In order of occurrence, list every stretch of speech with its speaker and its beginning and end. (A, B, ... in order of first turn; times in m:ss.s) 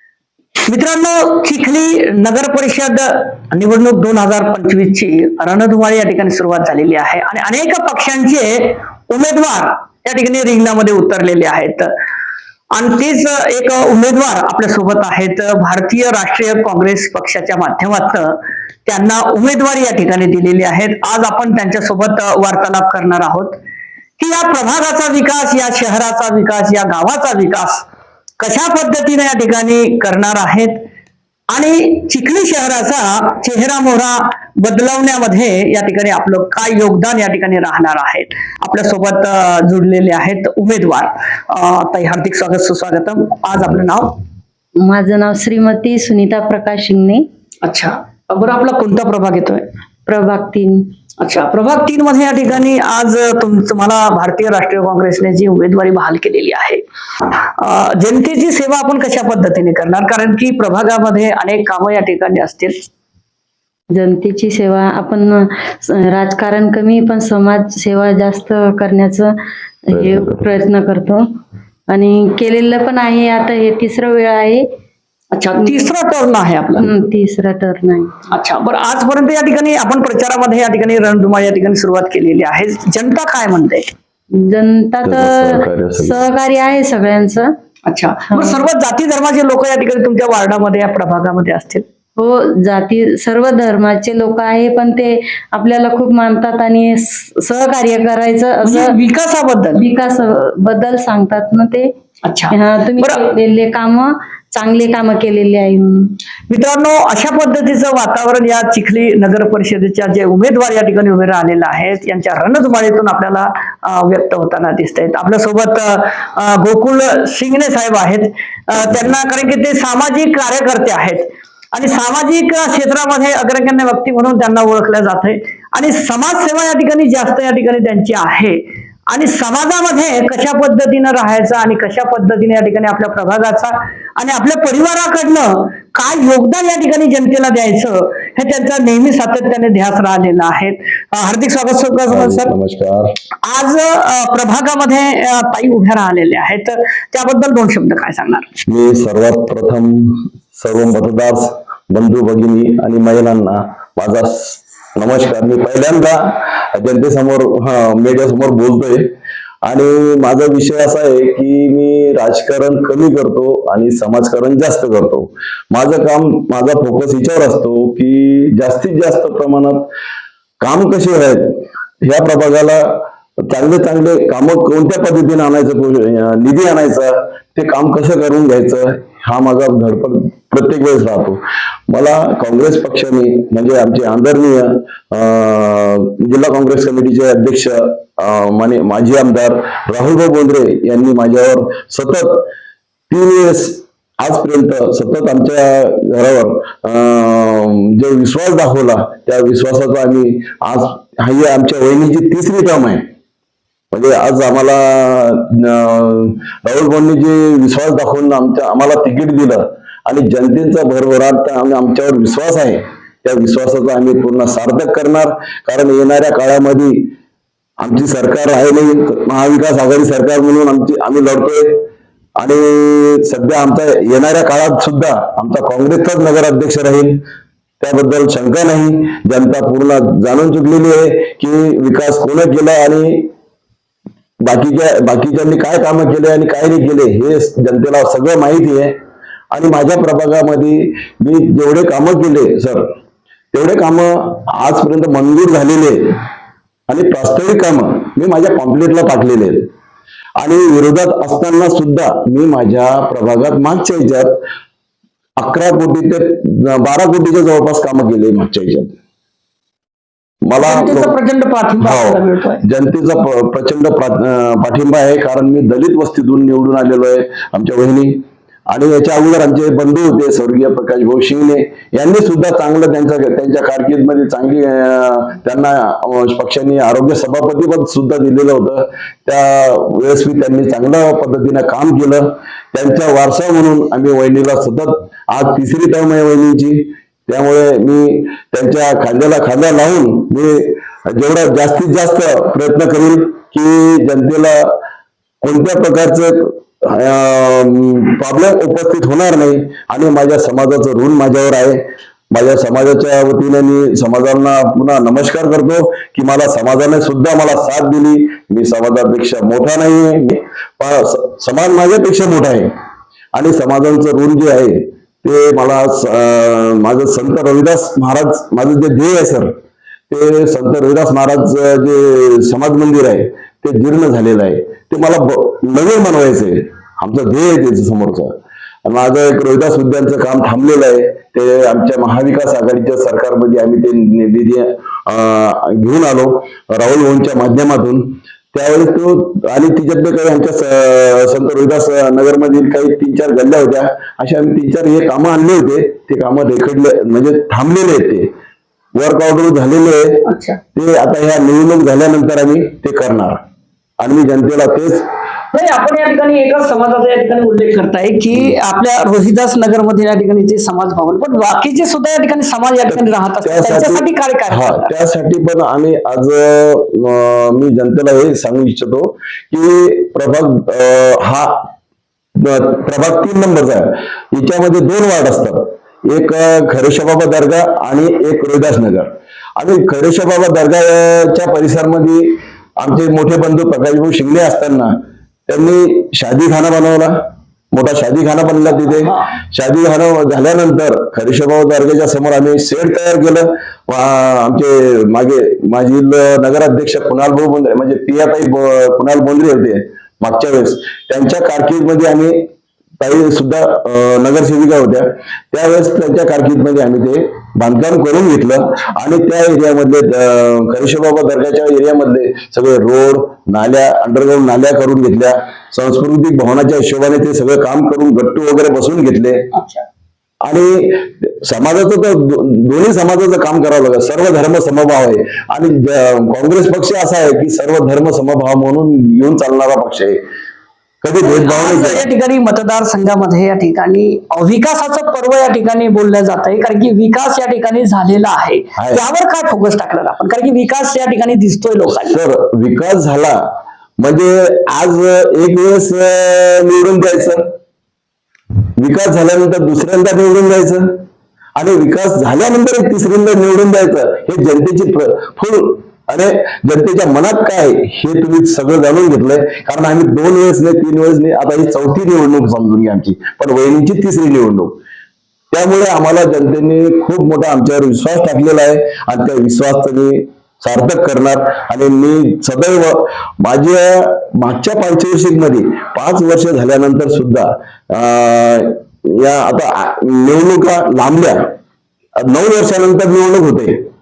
0:00.6-0:11.9 A
0:12.7-0:23.6 A
0:24.2-0:27.9 A
0:28.4-0:30.8 A
0:31.5-0:44.2 A
0:44.8-0:47.2 B
0:47.6-0:49.6 A
0:50.1-0:50.8 B
0:51.2-0:56.8 A
0:57.6-1:02.9 A
1:03.9-1:09.3 B
1:09.9-1:11.4 B
1:09.9-1:10.3 C
1:11.9-1:14.6 B
1:15.3-1:16.9 A
1:16.8-1:18.2 B
1:18.3-1:23.9 A
1:24.3-1:27.5 B
1:25.0-1:26.2 C
1:27.9-1:31.8 A
1:28.3-1:28.6 B
1:32.2-1:38.9 B
1:38.6-1:39.8 A
1:39.8-1:41.9 B
1:42.2-1:43.2 A
1:42.5-1:46.1 B
1:46.5-2:22.5 A
2:22.1-2:23.1 C
2:23.4-2:28.5 A
2:28.7-2:49.9 C
2:50.6-3:12.5 C
3:13.1-3:23.1 C
3:23.9-3:37.1 C
3:37.8-3:41.9 C
3:42.4-3:47.2 C
3:47.8-3:53.3 C
3:54.4-3:59.0 C
3:59.5-4:02.9 C
4:03.5-4:06.2 C
4:06.9-4:09.7 C
4:10.4-4:14.4 C
4:15.4-4:19.0 C
4:20.4-4:21.2 C
4:20.6-4:22.6 A
4:21.8-4:54.8 C
4:55.4-5:12.7 C
5:13.3-5:19.5 C
5:20.1-5:48.3 C
5:48.9-5:53.4 C
5:50.2-5:50.6 A
5:54.0-5:55.1 C
5:55.5-6:04.9 A
6:02.9-6:11.7 C
6:12.4-6:42.4 C
6:43.0-6:59.5 C
6:59.5-6:59.8 A
7:00.4-7:10.2 C
7:11.0-7:12.1 C
7:11.2-7:22.2 A
7:18.8-7:19.0 C
7:22.0-7:27.5 C
7:28.8-7:31.0 C
7:31.6-7:44.8 C
7:45.5-8:01.5 C
8:02.2-8:03.8 C